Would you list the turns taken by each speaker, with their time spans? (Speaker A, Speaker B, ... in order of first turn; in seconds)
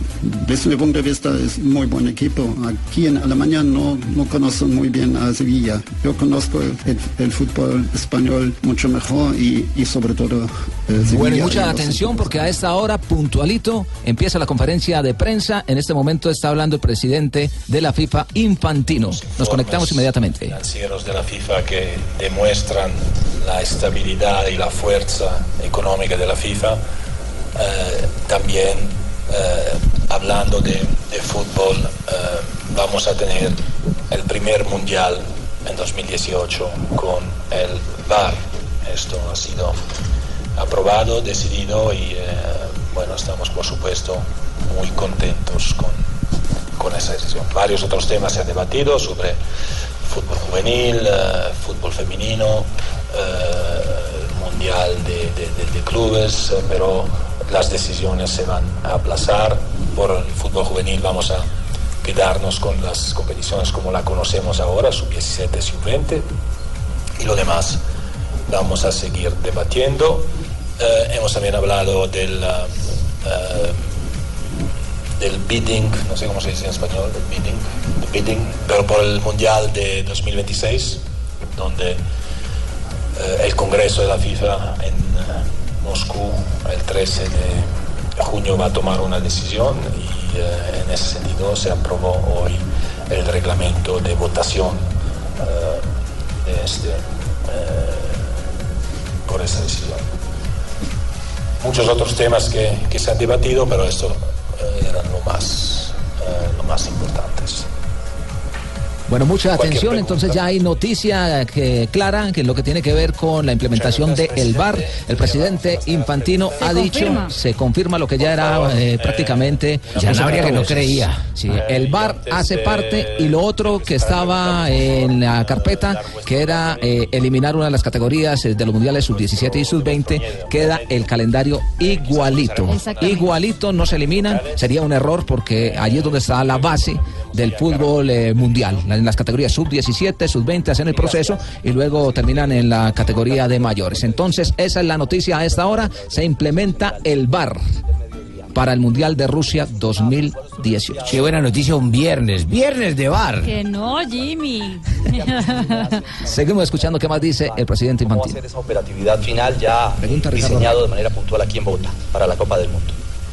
Speaker A: 0.2-12.6
Speaker B: 11.0-20.6, 109.1-147.6, 148.5-151.2, 156.2-158.4, 160.0-160.8
Speaker C: 19.0-26.8, 27.6-39.8, 40.6-46.0, 46.8-49.4, 50.0-61.4, 62.0-66.3, 67.2-67.8, 68.5-73.8, 75.2-81.0, 81.5-82.0, 83.2-94.8, 95.4-95.8, 96.4-98.3, 99.2-100.0, 101.6-107.7, 109.5-110.5, 113.7-117.2, 118.2-127.2, 129.1-131.2, 131.8-134.8, 135.4-138.9, 140.9-147.0, 150.3-151.1
Speaker D: 116.6-117.3, 132.7-133.3, 153.4-156.0
Speaker E: 119.9-121.2, 151.1-153.5
Speaker F: 157.4-162.9